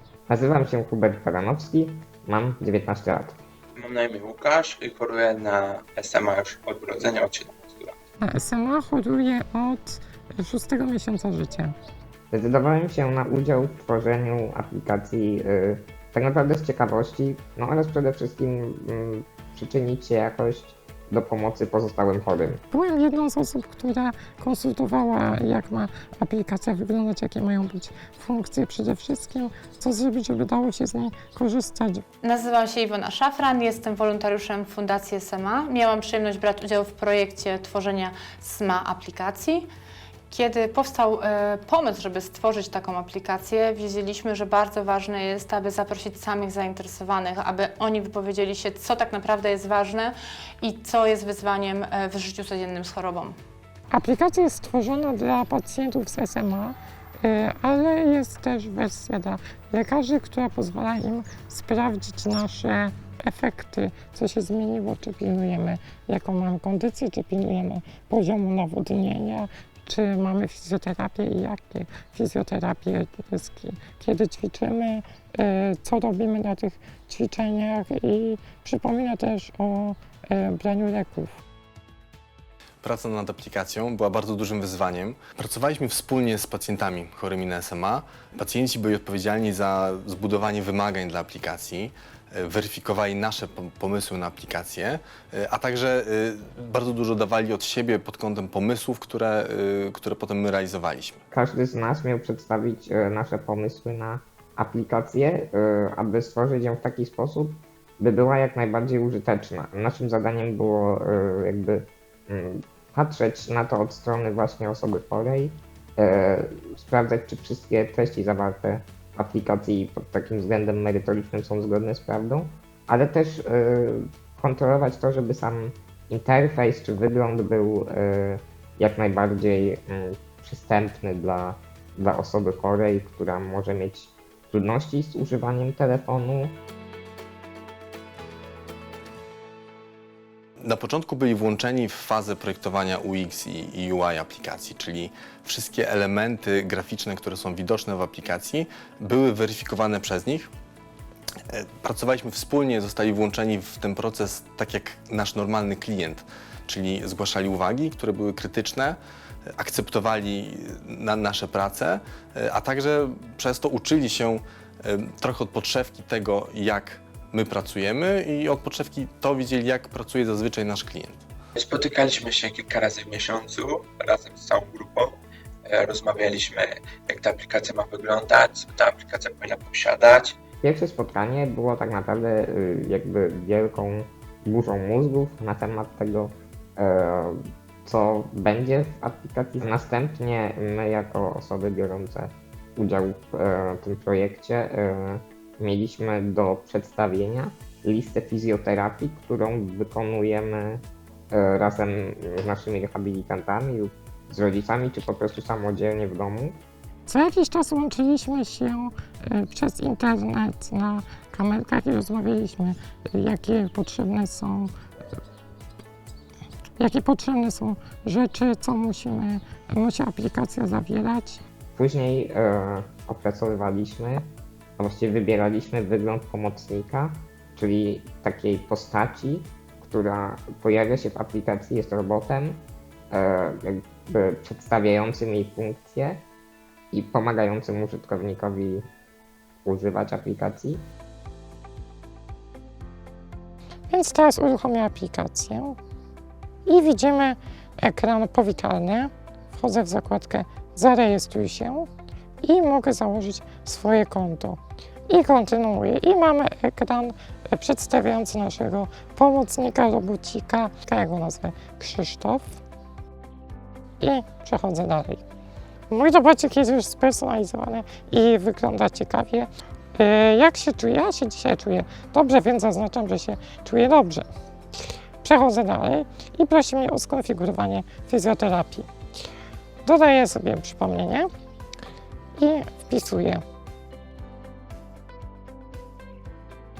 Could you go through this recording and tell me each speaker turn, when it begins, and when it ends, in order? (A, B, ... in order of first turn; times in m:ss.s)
0:00.3-0:03.4 A
0:03.8-0:08.0 B
0:08.2-0:11.8 C
0:12.3-0:22.6 A
0:22.7-0:32.0 C
0:32.2-0:39.7 D
0:40.3-0:53.4 D
0:53.9-1:21.4 C
1:22.8-1:41.2 E
1:41.3-2:16.6 A
2:20.6-2:30.5 E
2:31.5-2:39.0 E
2:39.6-2:51.2 E
2:51.6-3:00.4 B
3:00.6-3:26.6 A
3:27.1-3:34.7 C
3:36.8-3:41.4 C
3:41.8-3:56.2 A
3:56.9-3:58.9 A
3:59.6-4:00.9 A
4:03.9-4:05.8 C
4:06.7-4:11.9 C
4:12.4-4:22.6 C
4:24.0-4:25.2 C
4:25.9-4:34.3 C
4:35.2-4:38.9 C
4:39.8-4:41.3 C
4:42.4-4:43.4 C